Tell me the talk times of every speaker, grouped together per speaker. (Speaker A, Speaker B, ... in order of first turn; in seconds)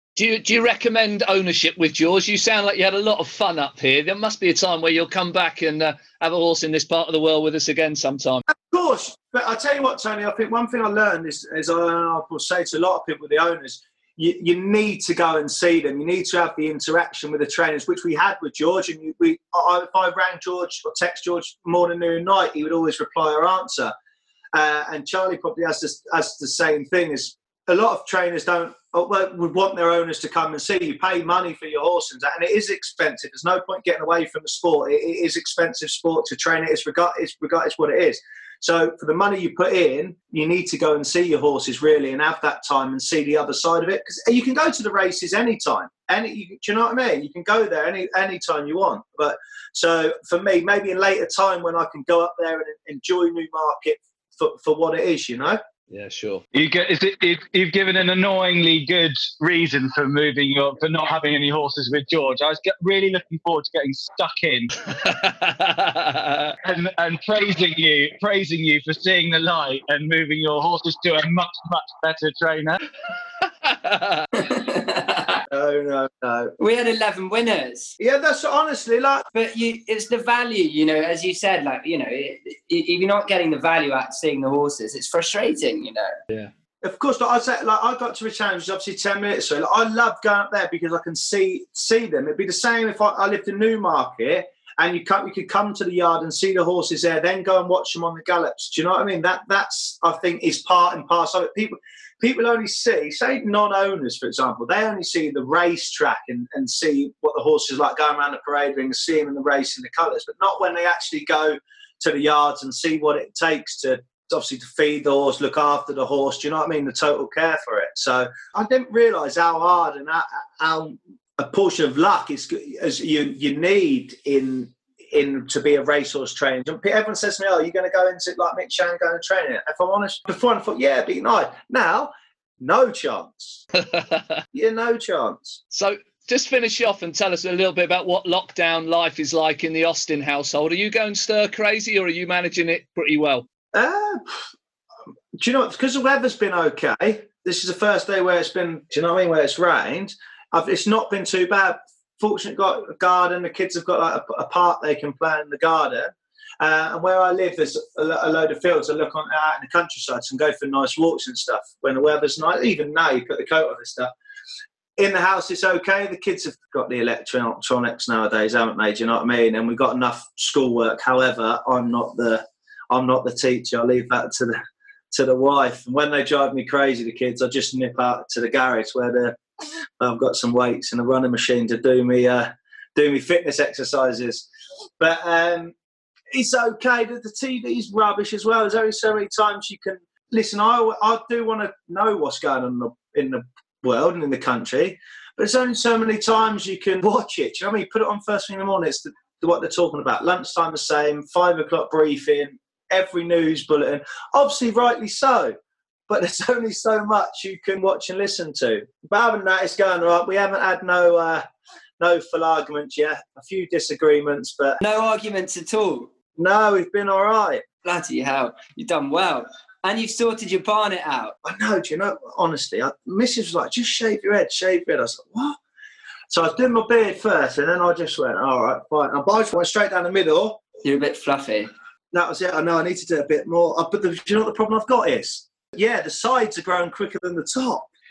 Speaker A: 0.2-8.4, 55.9-56.5, 64.9-66.5, 73.6-74.3, 133.9-134.4, 135.7-143.5
Speaker B: 8.5-23.9, 24.5-55.6, 75.5-76.5, 78.0-79.2, 86.8-133.6, 134.5-135.6, 143.7-144.4, 145.3-164.1, 165.0-174.6, 175.1-179.4, 180.0-184.4, 185.0-185.7, 186.3-205.6, 206.1-211.4, 212.0-214.8, 216.4-217.6, 221.4-225.6, 226.3-230.6, 232.1-237.9
Speaker C: 56.5-64.7, 66.6-72.8
Speaker D: 74.3-75.4, 76.6-78.0, 79.3-86.2, 214.8-216.1, 217.8-221.4, 230.8-231.7